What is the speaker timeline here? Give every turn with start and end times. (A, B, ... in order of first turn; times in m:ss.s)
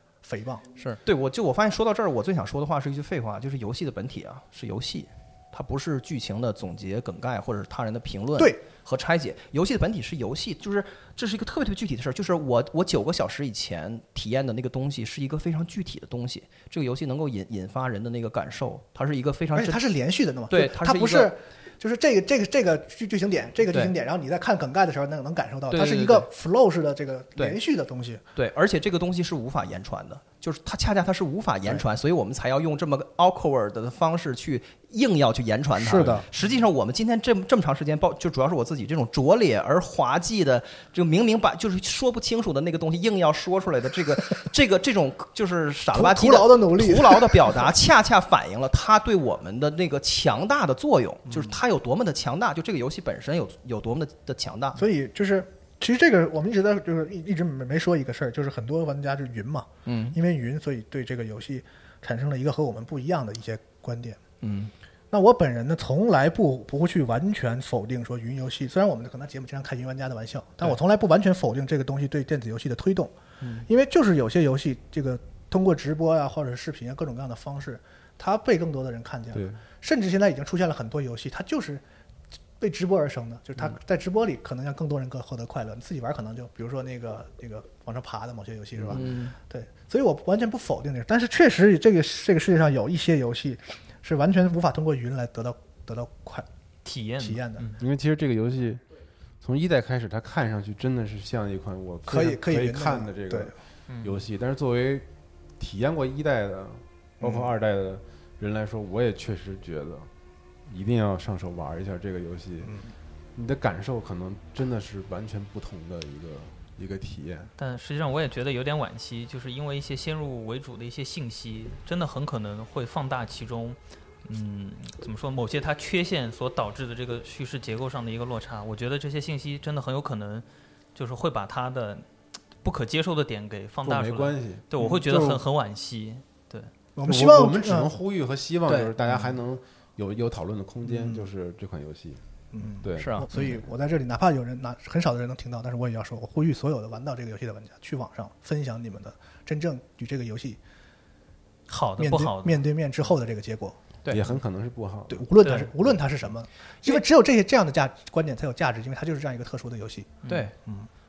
0:00.2-0:00.7 A
0:00.8-0:20.0 B
0:19.6-0:28.2 A
0:20.5-0:21.4 B
0:25.7-0:26.3 B
0:28.4-0:54.8 B
0:35.8-0:36.3 A
0:45.9-0:47.6 A
0:51.3-0:51.6 A
0:54.8-1:04.2 A
0:59.9-1:00.2 B
1:04.4-1:04.7 B
1:05.1-1:13.1 A
1:13.4-1:13.7 B
1:13.6-1:21.8 A
1:19.3-1:19.6 C
1:22.6-1:36.5 A
1:28.8-1:29.0 C
1:28.9-1:29.4 B
1:36.8-1:37.8 D
1:37.2-1:37.7 A
1:37.8-1:38.8 C
1:39.4-1:45.1 C
1:42.1-1:43.5 A
1:43.9-1:44.2 D
1:45.6-1:50.1 C
1:50.7-1:52.7 C
1:52.6-1:52.9 A
1:53.4-1:57.5 C
1:57.6-2:12.1 D
2:12.6-2:16.7 D
2:13.8-2:15.4 C
2:17.0-2:17.9 A
2:17.1-2:22.2 C
2:18.7-2:19.3 B
2:20.8-2:21.3 A
2:22.5-2:30.6 A
2:22.8-2:23.3 C
2:23.0-2:23.6 B
2:31.7-2:32.6 D
2:32.0-2:33.8 A
2:34.0-2:34.4 B
2:34.1-2:36.0 C
2:35.1-2:40.1 A
2:35.4-2:35.7 D
2:40.2-2:40.5 D
2:40.3-2:40.5 B